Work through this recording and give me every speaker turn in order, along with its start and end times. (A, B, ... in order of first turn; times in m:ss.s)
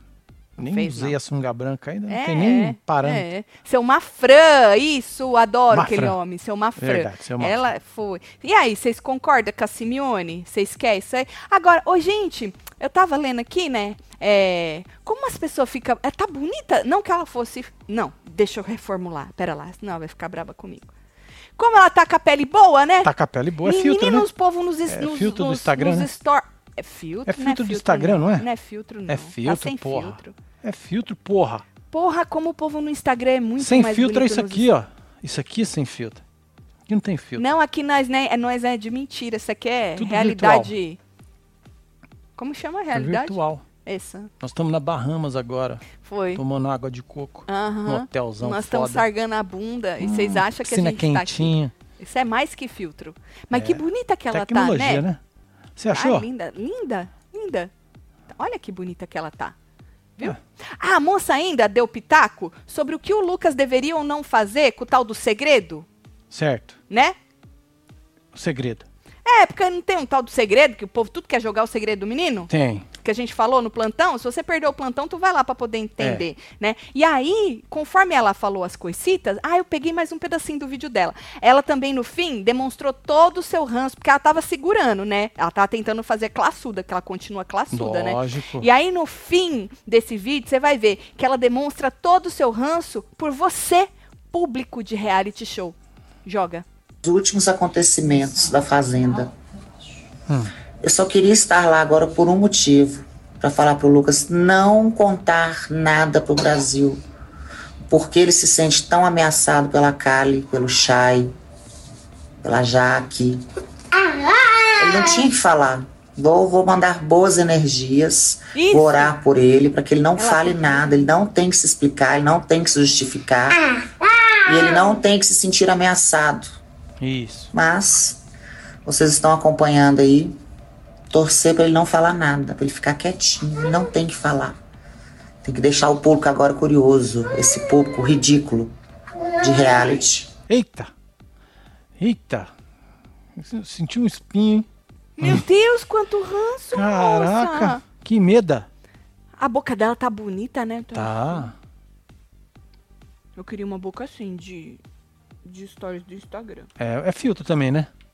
0:00.6-0:03.2 A
0:00.6-0:01.2 B
0:02.1-0:20.9 B
0:05.7-0:06.1 A
0:06.8-0:07.6 A
0:21.6-0:23.1 B
0:23.0-0:24.3 A
0:23.6-0:30.3 B
0:24.9-0:26.1 A
0:27.3-0:28.5 A
0:29.1-0:31.6 A
0:31.9-0:34.6 B
0:33.6-0:36.2 A
0:36.9-0:37.4 A
0:37.4-0:41.0 B
0:40.0-0:40.7 A
0:42.4-0:44.3 B
0:42.9-0:43.6 A
0:44.4-0:49.1 A
0:46.0-0:46.4 B
0:47.5-0:55.0 B
0:50.0-0:51.7 A
0:53.5-0:55.2 A
0:55.8-0:56.2 A
0:55.9-0:57.7 B
0:58.3-0:59.5 B
1:00.2-1:05.8 B
1:06.3-1:06.8 A
1:06.9-1:07.2 B
1:08.3-1:08.8 A
1:09.2-1:36.6 B
1:12.5-1:12.9 A
1:16.0-1:16.2 A
1:27.7-1:28.6 A
1:37.0-1:39.3 C
1:40.3-1:40.5 A
1:40.8-1:47.0 C
1:47.9-1:51.3 C
1:52.4-1:53.4 C
1:54.8-2:03.7 C
1:58.5-1:59.1 B
2:00.2-2:00.8 B
2:04.4-2:06.6 C
2:07.0-2:07.5 A
2:07.5-2:08.2 C
2:08.8-2:10.4 C
2:11.1-2:14.6 C
2:15.4-2:18.7 C
2:19.4-2:20.3 C
2:20.5-2:20.9 A
2:22.0-2:22.5 A
2:23.4-2:24.7 A
2:25.2-2:27.8 B
2:26.7-2:28.7 A
2:29.4-2:31.5 B
2:30.9-2:31.5 A
2:33.4-2:34.8 B
2:35.4-2:36.7 B
2:36.8-2:37.9 A